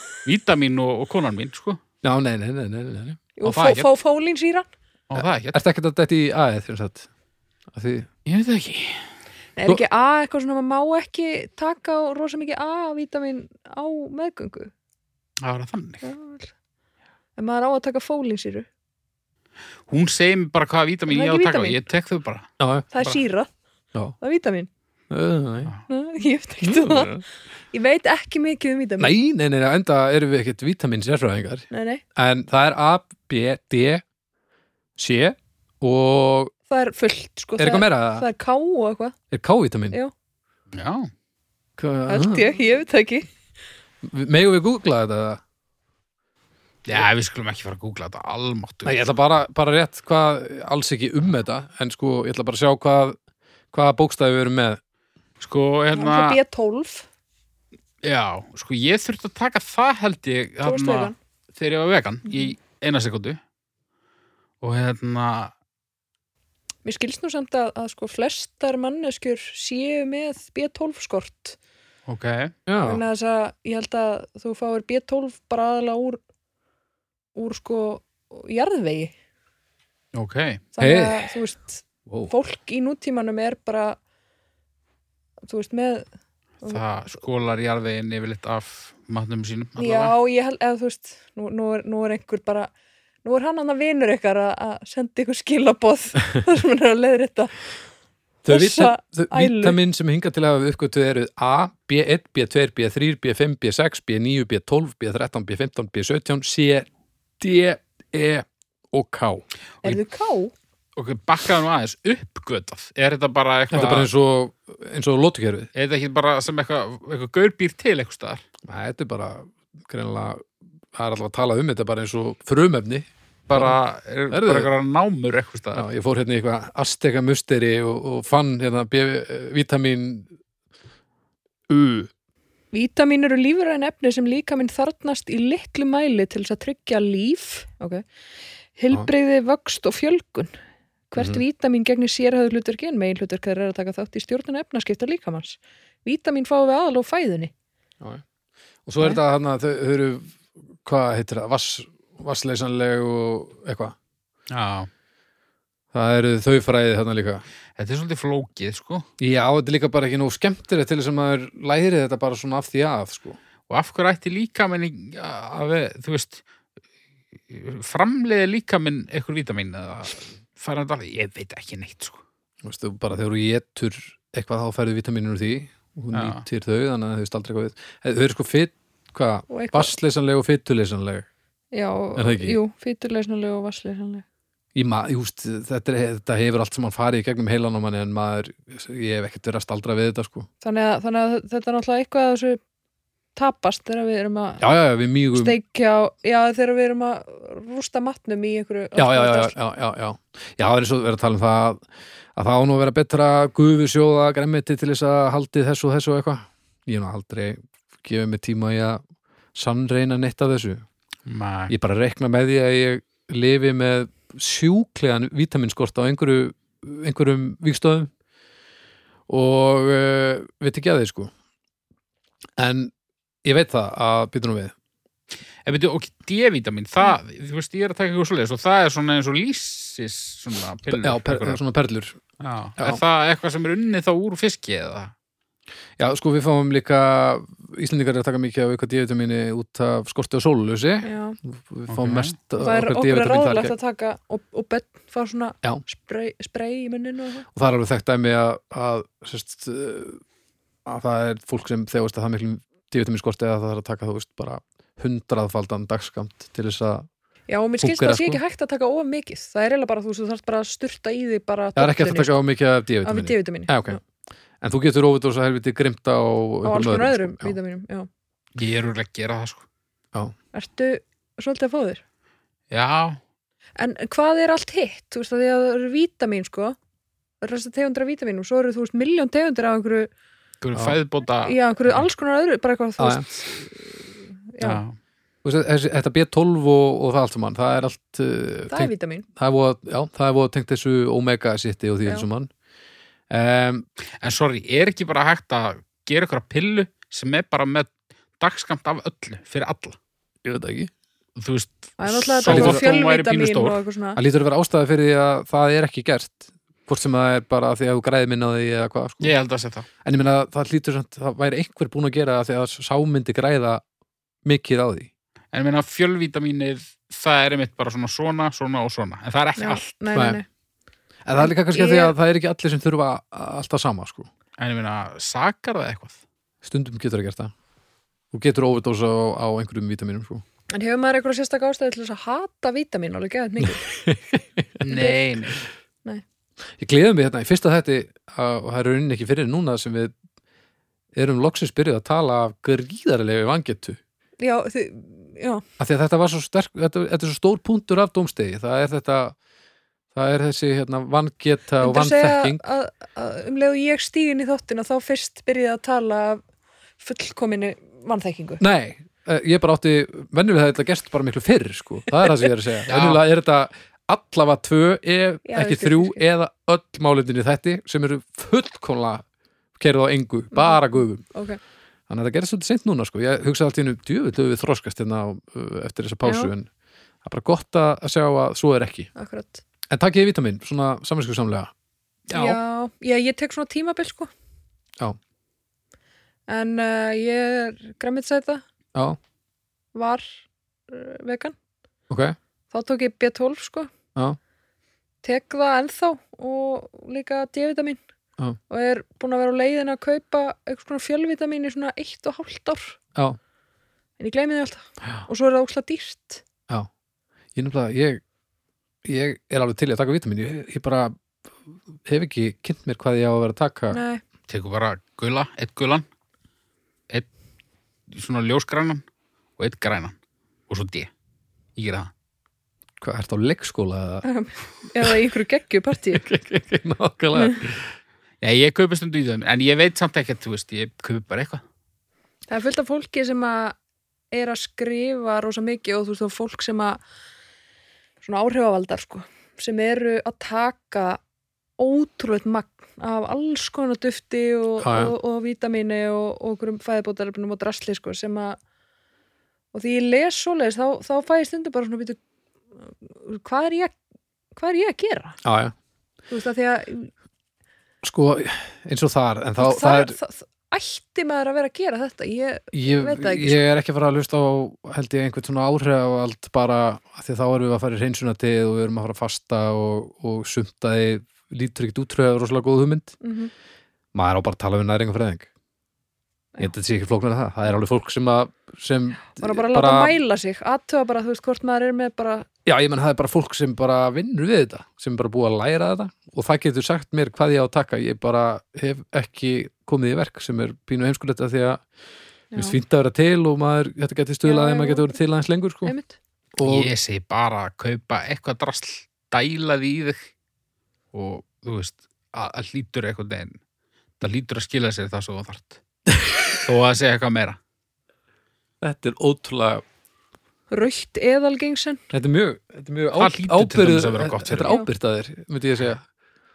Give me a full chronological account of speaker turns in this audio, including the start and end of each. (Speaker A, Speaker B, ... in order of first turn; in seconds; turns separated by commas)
Speaker A: 0.2-1.8, Speaker B: 2.0-3.4, Speaker C: 3.4-4.7, Speaker A: 3.4-3.8, Speaker A: 5.1-5.6, Speaker B: 5.2-7.1, Speaker B: 7.7-8.1, Speaker A: 8.2-9.0, Speaker C: 9.6-14.7, Speaker A: 15.4-16.0, Speaker C: 16.0-16.5, Speaker C: 17.4-18.7, Speaker A: 19.9-23.2, Speaker C: 21.1-21.8, Speaker B: 22.6-22.9, Speaker C: 22.9-23.5, Speaker C: 24.2-24.7, Speaker B: 25.1-25.7, Speaker C: 25.9-27.2, Speaker B: 26.6-27.2, Speaker C: 27.7-29.1, Speaker B: 29.0-34.0, Speaker C: 31.7-32.0, Speaker B: 35.0-36.5, Speaker C: 36.7-39.1, Speaker B: 37.6-38.2, Speaker B: 39.3-40.0, Speaker A: 40.7-41.1, Speaker B: 41.8-42.5, Speaker C: 42.1-43.3, Speaker B: 44.0-45.4, Speaker A: 46.9-49.0, Speaker B: 48.8-53.2, Speaker B: 53.7-54.8, Speaker A: 55.4-56.4, Speaker C: 55.9-57.1, Speaker A: 58.0-63.4, Speaker C: 60.6-61.1, Speaker C: 62.3-62.5, Speaker A: 64.6-65.5, Speaker C: 66.8-71.6, Speaker A: 72.1-72.5, Speaker B: 72.7-73.0, Speaker C: 72.8-76.2, Speaker C: 77.3-79.1, Speaker A: 80.1-80.6, Speaker C: 80.7-84.0, Speaker B: 80.8-81.3, Speaker C: 85.5-86.0, Speaker A: 86.6-90.1, Speaker C: 89.8-92.7, Speaker C: 93.2-97.5, Speaker B: 98.4-106.9, Speaker C: 98.5-99.8, Speaker B: 107.4-110.0, Speaker C: 109.8-110.5, Speaker A: 111.0-114.1, Speaker B: 113.7-115.7, Speaker A: 115.7-118.4, Speaker B: 118.6-123.8, Speaker A: 123.5-125.8, Speaker B: 124.3-124.7, Speaker B: 125.7-130.3, Speaker B: 131.7-132.1, Speaker C: 132.7-138.0, Speaker C: 138.8-140.5, Speaker C: 141.1-147.5, Speaker B: 148.8-153.9, Speaker A: 154.5-154.9, Speaker B: 155.9-157.4, Speaker A: 157.8-159.1, Speaker B: 159.2-163.4, Speaker A: 163.7-166.4, Speaker A: 167.5-172.2, Speaker B: 172.6-181.3, Speaker A: 176.1-176.4, Speaker C: 179.5-179.9, Speaker C: 181.7-184.2, Speaker B: 182.1-182.6, Speaker B: 184.7-190.5, Speaker C: 190.6-192.6, Speaker C: 193.3-194.6, Speaker B: 194.6-195.6, Speaker C: 195.3-199.5, Speaker B: 198.9-201.8, Speaker B: 202.3-209.0, Speaker B: 209.5-210.8, Speaker A: 211.2-211.7, Speaker B: 211.7-218.1, Speaker B: 219.3-221.3, Speaker B: 222.6-222.9, Speaker B: 223.4-224.7, Speaker A: 225.6-231.6, Speaker B: 230.9-232.2, Speaker A: 232.4-235.1, Speaker B: 236.0-243.7, Speaker C: 241.0-241.4, Speaker A: 241.9-242.3, Speaker C: 242.6-247.5, Speaker B: 247.5-250.2, Speaker B: 250.8-257.1, Speaker C: 257.5-262.4, Speaker B: 257.8-258.4, Speaker B: 261.8-264.0, Speaker C: 263.0-264.0, Speaker B: 264.6-267.6, Speaker C: 266.6-268.1, Speaker A: 268.5-269.6, Speaker C: 270.5-272.0, Speaker A: 272.7-273.2, Speaker C: 273.8-276.8, Speaker C: 277.4-280.1, Speaker A: 280.6-281.6, Speaker C: 281.4-283.9, Speaker B: 283.0-283.3, Speaker C: 284.5-284.8, Speaker A: 284.6-285.0, Speaker B: 285.4-292.5, Speaker C: 288.7-289.2, Speaker B: 293.3-293.8, Speaker A: 294.2-300.0, Speaker B: 300.4-300.9, Speaker A: 301.4-303.8, Speaker C: 302.0-304.2, Speaker B: 302.4-302.8, Speaker B: 304.1-309.3, Speaker A: 309.2-309.9, Speaker B: 310.0-313.8, Speaker B: 314.4-315.1, Speaker A: 315.5-319.9, Speaker C: 319.6-320.4, Speaker B: 321.2-324.3, Speaker C: 321.4-322.1, Speaker A: 324.6-326.2, Speaker B: 326.6-327.5, Speaker B: 328.3-330.4, Speaker C: 330.7-333.8, Speaker B: 333.6-334.7, Speaker A: 334.8-335.6, Speaker C: 334.9-335.2, Speaker B: 336.8-340.1, Speaker B: 341.1-344.0, Speaker C: 344.4-345.6, Speaker B: 345.8-349.4, Speaker B: 350.1-352.6, Speaker C: 351.8-356.4, Speaker C: 357.0-358.6, Speaker B: 358.6-369.2, Speaker A: 362.9-363.2, Speaker C: 365.4-366.2, Speaker B: 369.8-371.2, Speaker C: 370.5-371.6, Speaker B: 372.1-376.7, Speaker C: 376.2-376.5, Speaker B: 377.2-379.1, Speaker C: 379.1-379.6, Speaker B: 379.9-381.7, Speaker B: 382.3-382.6, Speaker C: 382.3-384.3, Speaker C: 386.5-388.6, Speaker C: 389.9-391.6, Speaker B: 392.1-392.4, Speaker C: 392.7-393.9, Speaker C: 395.2-398.0, Speaker C: 398.7-403.0, Speaker C: 404.2-406.4, Speaker B: 407.6-408.2, Speaker B: 409.0-414.0, Speaker C: 413.9-414.2, Speaker A: 414.5-416.0, Speaker A: 418.1-419.0, Speaker A: 419.6-420.1, Speaker A: 420.7-421.1, Speaker A: 421.8-422.1, Speaker B: 423.0-424.2, Speaker C: 424.2-426.2, Speaker B: 426.1-427.9, Speaker A: 428.4-431.6, Speaker C: 432.5-433.8, Speaker C: 434.3-437.0, Speaker C: 438.2-441.2, Speaker C: 441.8-448.6, Speaker B: 444.8-445.1, Speaker C: 449.7-452.2, Speaker C: 453.0-453.9, Speaker C: 454.6-455.4, Speaker B: 455.4-455.7, Speaker C: 456.3-457.1, Speaker B: 458.0-460.2, Speaker C: 459.6-463.6, Speaker B: 462.7-473.2, Speaker C: 473.2-473.5, Speaker B: 474.1-475.5, Speaker B: 476.6-480.2, Speaker C: 479.3-482.5, Speaker B: 482.6-491.8, Speaker C: 492.5-492.8, Speaker B: 492.6-495.9, Speaker C: 494.4-495.1, Speaker C: 495.8-496.2, Speaker B: 496.6-496.9, Speaker A: 496.6-500.3, Speaker A: 501.1-503.6, Speaker A: 504.2-505.8, Speaker B: 506.1-506.6, Speaker A: 506.6-507.6, Speaker B: 508.8-509.8, Speaker C: 510.7-512.0, Speaker B: 512.1-516.0, Speaker A: 513.2-514.7